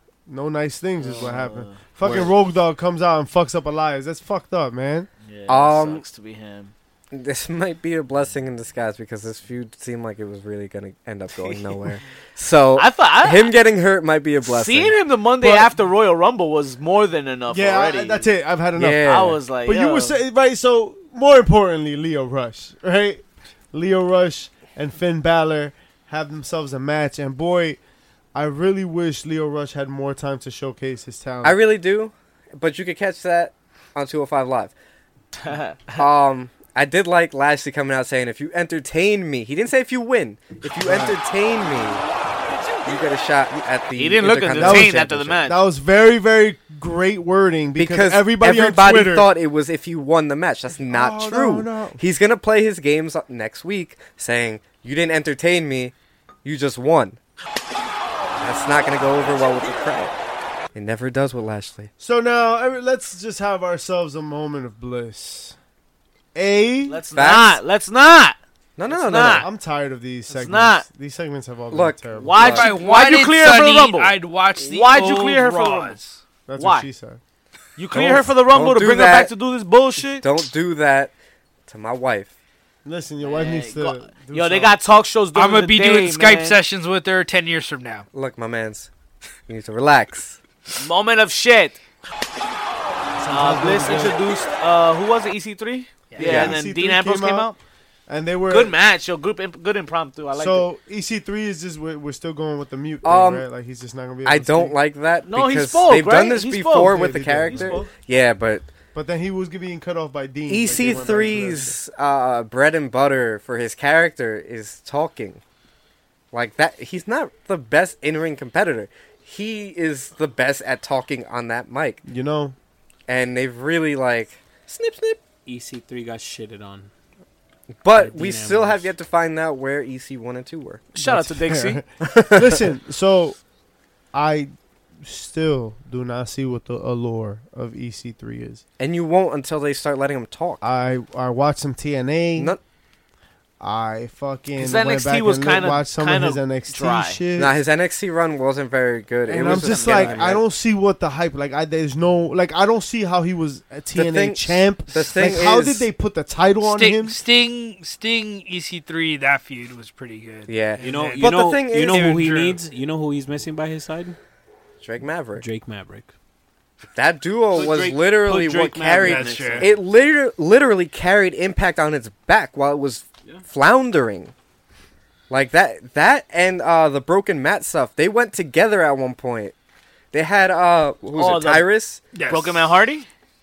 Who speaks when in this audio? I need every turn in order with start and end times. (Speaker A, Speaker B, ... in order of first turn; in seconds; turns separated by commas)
Speaker A: 0.3-5.1, Speaker B: 1.0-2.2, Speaker B: 5.2-6.7, Speaker C: 5.5-6.0, Speaker C: 7.1-14.9, Speaker B: 11.4-11.8, Speaker B: 12.8-13.6, Speaker B: 14.4-18.3, Speaker A: 15.4-15.7, Speaker A: 17.5-27.8, Speaker C: 18.8-19.4, Speaker B: 19.0-20.2, Speaker A: 28.3-31.6, Speaker C: 31.4-34.7, Speaker B: 35.4-36.0, Speaker C: 36.0-42.0, Speaker A: 40.8-41.1, Speaker C: 42.8-45.4, Speaker B: 43.9-45.6, Speaker A: 44.6-49.3, Speaker C: 47.8-57.2, Speaker A: 50.8-52.0, Speaker C: 58.4-60.1, Speaker C: 60.7-61.9, Speaker A: 62.0-65.5, Speaker A: 66.3-67.0, Speaker B: 66.9-68.4, Speaker C: 67.1-67.6, Speaker C: 68.8-69.5, Speaker B: 68.9-69.5, Speaker A: 69.3-72.6, Speaker B: 70.3-70.8, Speaker C: 71.7-72.7, Speaker B: 72.2-76.0, Speaker D: 72.4-76.2, Speaker A: 76.5-77.2, Speaker B: 76.6-76.9, Speaker B: 77.8-80.2, Speaker C: 77.9-79.3, Speaker C: 80.2-81.1, Speaker C: 81.7-82.3, Speaker A: 82.8-84.8, Speaker B: 83.2-86.6, Speaker D: 85.3-88.0, Speaker C: 88.1-88.9, Speaker C: 89.5-90.4, Speaker B: 90.7-91.8, Speaker A: 93.2-94.2, Speaker B: 93.3-97.6, Speaker A: 96.2-97.5, Speaker C: 96.2-96.5, Speaker A: 98.1-98.7, Speaker B: 98.5-100.7, Speaker A: 100.3-104.8, Speaker C: 103.0-103.4, Speaker C: 104.2-108.7, Speaker B: 105.3-107.9, Speaker A: 106.8-107.9, Speaker A: 108.9-111.7, Speaker C: 110.5-115.4, Speaker C: 116.3-122.0, Speaker A: 122.0-122.5, Speaker C: 123.1-125.2, Speaker E: 125.5-126.9, Speaker C: 127.8-130.9, Speaker E: 127.9-128.9, Speaker B: 130.9-131.8, Speaker A: 131.0-133.4, Speaker C: 132.1-132.5, Speaker A: 134.1-134.5, Speaker A: 135.0-138.6, Speaker C: 138.8-140.6, Speaker A: 140.6-142.5, Speaker A: 143.6-147.6, Speaker B: 144.6-147.2, Speaker C: 147.3-150.4, Speaker A: 149.3-157.2, Speaker B: 149.3-150.3, Speaker C: 153.9-155.8, Speaker D: 156.6-162.6, Speaker C: 160.5-162.2, Speaker E: 160.8-164.2, Speaker C: 164.8-165.4, Speaker E: 165.3-166.1, Speaker C: 166.9-174.3, Speaker E: 167.5-169.8, Speaker D: 169.0-169.7, Speaker C: 175.3-179.5, Speaker C: 180.1-182.0, Speaker B: 181.2-181.7, Speaker D: 182.1-182.7, Speaker B: 182.3-183.1